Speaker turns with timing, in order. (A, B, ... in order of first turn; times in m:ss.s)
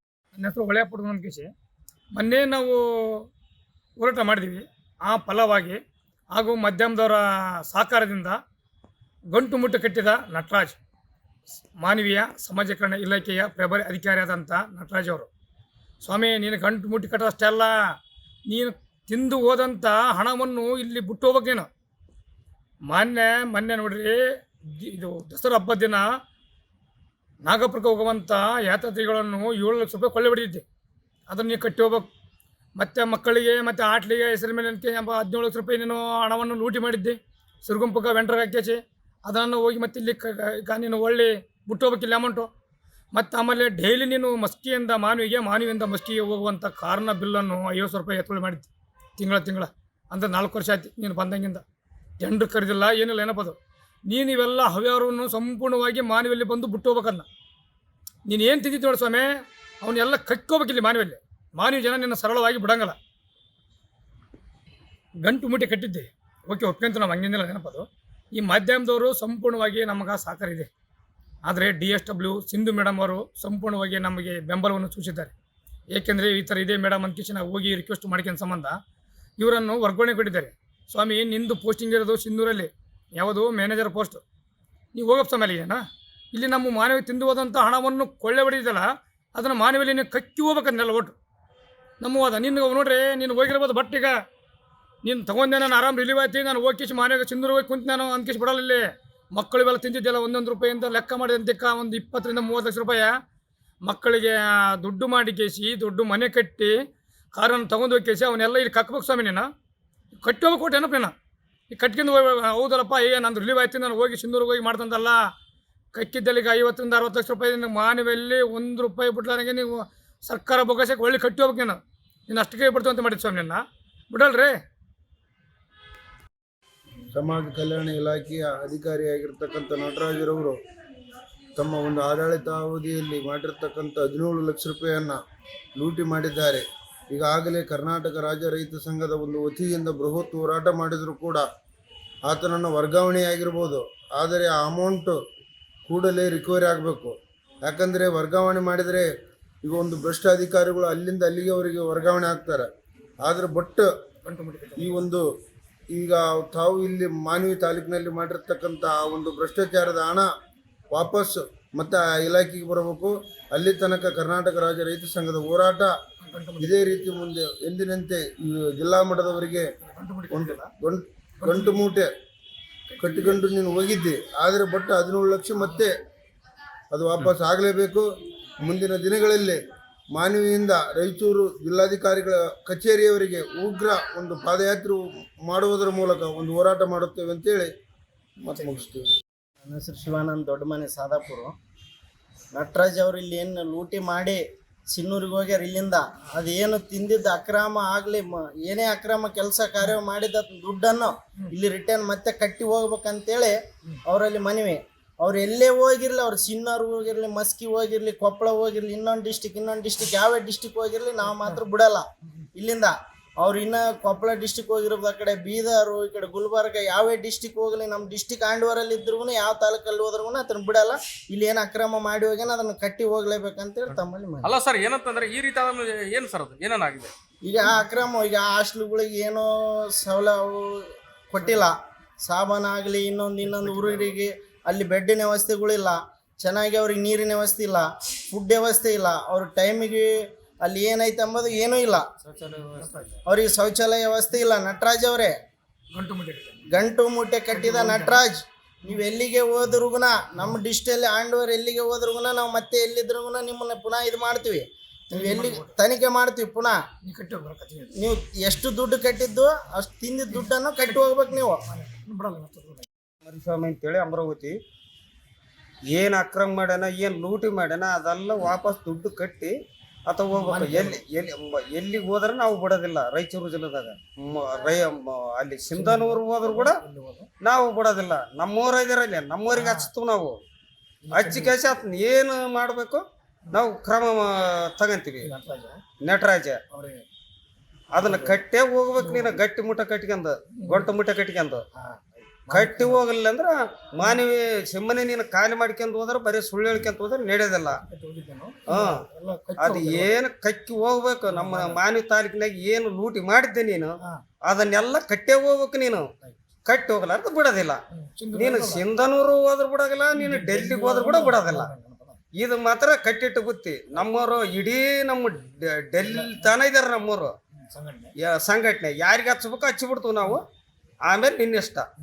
0:00.4-0:01.5 A
0:02.2-0:02.8 A
0:04.0-0:05.8 A
0:06.3-0:08.4 A
0:09.3-0:10.8 A
0:11.8-0:15.3 A
0:16.0-0:17.7 A
0:18.5-0:21.7 A
0:22.9-0:26.0 A
0:27.4-0:30.6 A
0:31.3-0:32.1 A
0:32.8-0:42.5 A
0:43.1-0:51.6 A
0:52.2-0:57.3 A
0:58.3-0:59.3 A
0:59.8-1:03.0 A
1:05.2-1:10.7 A
1:11.4-1:15.3 A
1:15.9-1:18.8 A
1:19.4-1:24.2 A
1:24.9-1:25.8 A
1:26.3-1:31.1 A
1:32.0-1:34.2 A
1:35.0-1:43.1 A
1:43.8-1:46.7 A
1:47.3-1:49.4 A
1:50.2-1:51.1 A
1:51.7-1:55.2 A
1:55.9-2:04.6 A
2:07.1-2:10.6 B
2:11.6-2:15.2 B
2:15.8-2:21.4 B
2:22.3-2:25.2 B
2:25.8-2:29.1 B
2:29.6-2:32.7 B
2:33.2-2:33.9 B
2:34.2-2:35.0 A
2:34.8-2:35.2 B
2:35.9-2:40.3 B
2:40.9-2:45.9 B
2:46.2-2:47.1 A
2:46.6-2:49.7 B
2:49.8-2:50.7 A
2:50.3-2:52.1 B
2:51.4-2:51.8 A
2:52.9-2:53.4 A
2:53.0-2:55.9 B
2:56.9-2:58.1 B
2:58.6-2:59.6 B
3:00.1-3:07.7 B
3:08.4-3:09.1 B
3:09.6-3:11.5 C
3:12.5-3:44.5 C
3:44.5-3:47.1 D
3:47.4-4:00.1 C
4:00.6-4:02.0 C
4:02.3-4:03.2 A
4:03.2-4:05.3 C
4:05.9-4:06.6 A
4:06.7-4:16.8 C
4:07.5-4:08.2 A
4:15.1-4:15.7 A
4:17.0-4:17.9 A
4:18.0-4:21.6 C
4:20.3-4:21.0 A
4:21.7-4:22.9 A
4:23.2-4:24.6 E
4:25.9-4:29.5 E
4:30.0-4:36.8 E
4:30.3-4:31.0 A
4:35.8-4:37.3 A
4:37.4-4:40.4 E
4:39.5-4:39.9 A
4:41.1-4:41.6 A
4:41.1-4:45.3 E
4:45.3-4:45.8 A
4:46.0-4:46.6 E
4:46.8-4:47.0 A
4:47.9-4:51.6 E
4:48.0-4:48.3 A
4:49.0-4:49.3 A
4:50.6-4:50.9 A
4:52.2-4:53.0 A
4:52.5-4:57.8 E
4:57.9-5:00.1 A
4:58.7-5:06.1 E
5:01.3-5:01.7 A
5:06.6-5:07.8 E
5:07.9-5:08.8 A
5:08.3-5:11.7 E
5:10.1-5:12.2 A
5:12.4-5:17.3 E
5:16.2-5:16.5 A
5:17.7-5:18.1 A
5:18.2-5:20.4 E
5:21.1-5:21.9 E